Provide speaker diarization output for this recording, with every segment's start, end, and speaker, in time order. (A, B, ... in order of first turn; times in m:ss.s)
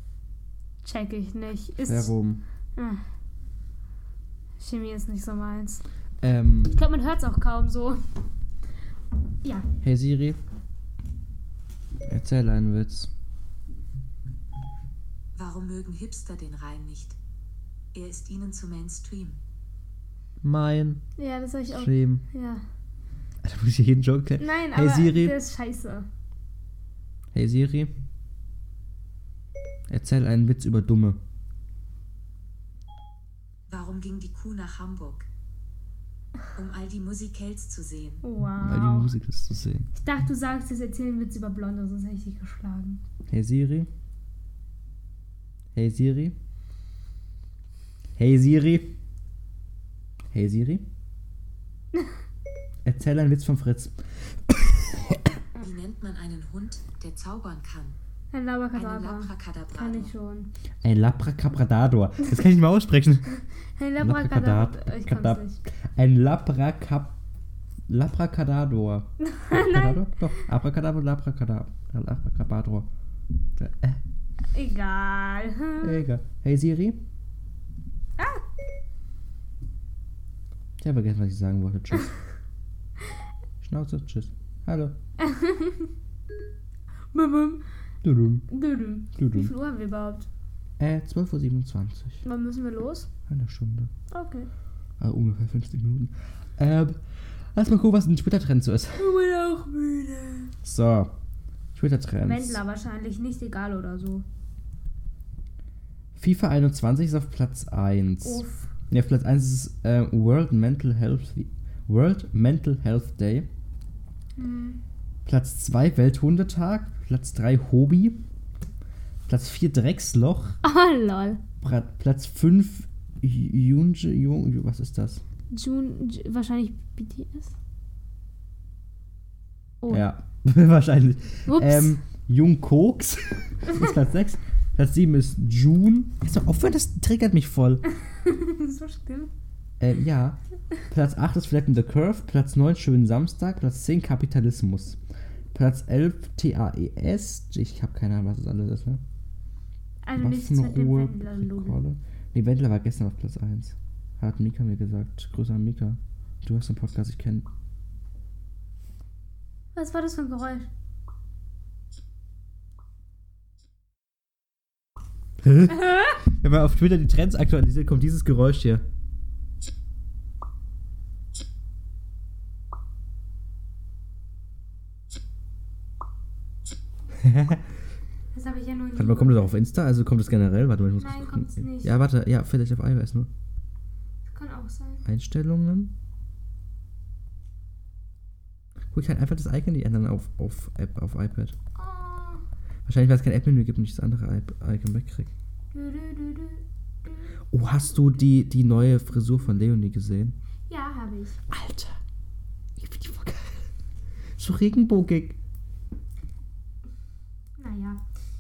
0:00.8-0:02.1 A
0:01.9-0:02.4 B
0:02.8-0:03.0 A
0:04.6-0:05.8 A
0:06.2-0:06.7 B
0:06.7-0:08.0 A
0:09.8-0:10.4 B
0:12.1-0:13.1 B
0:15.3-0:17.2 C
0:17.9-0:19.4 C
0:20.4-0:21.0 B
0:21.2-0:22.6 A
0:21.7-0:22.2 B
0:23.4-0:25.3 B
0:24.4-0:26.1 A
0:27.3-0:27.9 B
0:29.9-0:31.2 B
0:33.7-0:35.3 C
0:36.5-0:38.2 C
0:38.2-0:39.1 A
0:38.6-0:39.9 B
0:39.9-0:43.0 A
0:43.3-0:43.9 B
0:45.7-0:46.3 B
0:48.2-0:48.9 B
0:50.3-0:50.8 B
0:52.8-0:55.4 B
0:55.6-0:58.0 C
0:58.3-1:00.5 A
0:58.7-1:00.1 C
1:00.8-1:03.3 B
1:03.8-1:05.6 A
1:04.0-1:05.4 B
1:06.0-1:07.1 B
1:07.9-1:12.9 B
1:09.2-1:10.0 A
1:13.6-1:14.0 B
1:14.5-1:16.0 A
1:15.8-1:17.0 B
1:18.2-1:18.4 A
1:20.8-1:22.1 B
1:23.6-1:25.0 B
1:25.2-1:25.9 A
1:27.1-1:27.6 A
1:28.0-1:28.5 B
1:28.5-1:30.3 A
1:29.2-1:29.5 B
1:30.8-1:32.2 B
1:32.2-1:33.1 A
1:33.3-1:33.9 B
1:34.1-1:34.5 A
1:35.0-1:37.0 B
1:37.5-1:39.1 B
1:39.0-1:40.5 A
1:40.6-1:41.1 B
1:41.7-1:42.6 B
1:42.2-1:44.2 A
1:46.2-1:53.5 B
1:48.2-1:48.7 A
1:54.4-1:54.8 A
1:55.3-1:58.2 B
1:59.3-2:00.6 B
2:00.6-2:01.4 A
2:01.6-2:05.2 B
2:05.5-2:07.6 A
2:09.9-2:17.8 B
2:11.5-2:12.0 A
2:17.9-2:19.3 A
2:19.8-2:20.4 B
2:20.9-2:25.0 B
2:25.5-2:29.0 B
2:30.0-2:31.8 A
2:30.2-2:37.5 B
2:39.7-2:40.7 A
2:45.4-2:48.8 B
2:57.1-2:57.7 B
2:58.3-2:59.4 A
2:59.0-3:03.3 B
3:01.0-3:02.0 A
3:04.3-3:05.0 A
3:05.0-3:05.9 B
3:08.9-3:11.6 B
3:11.7-3:12.4 A
3:12.8-3:15.3 B
3:15.7-3:17.3 A
3:17.5-3:20.3 B
3:20.7-3:21.4 A
3:21.5-3:22.0 B
3:22.8-3:23.7 B
3:24.4-3:25.4 B
3:27.6-3:28.0 A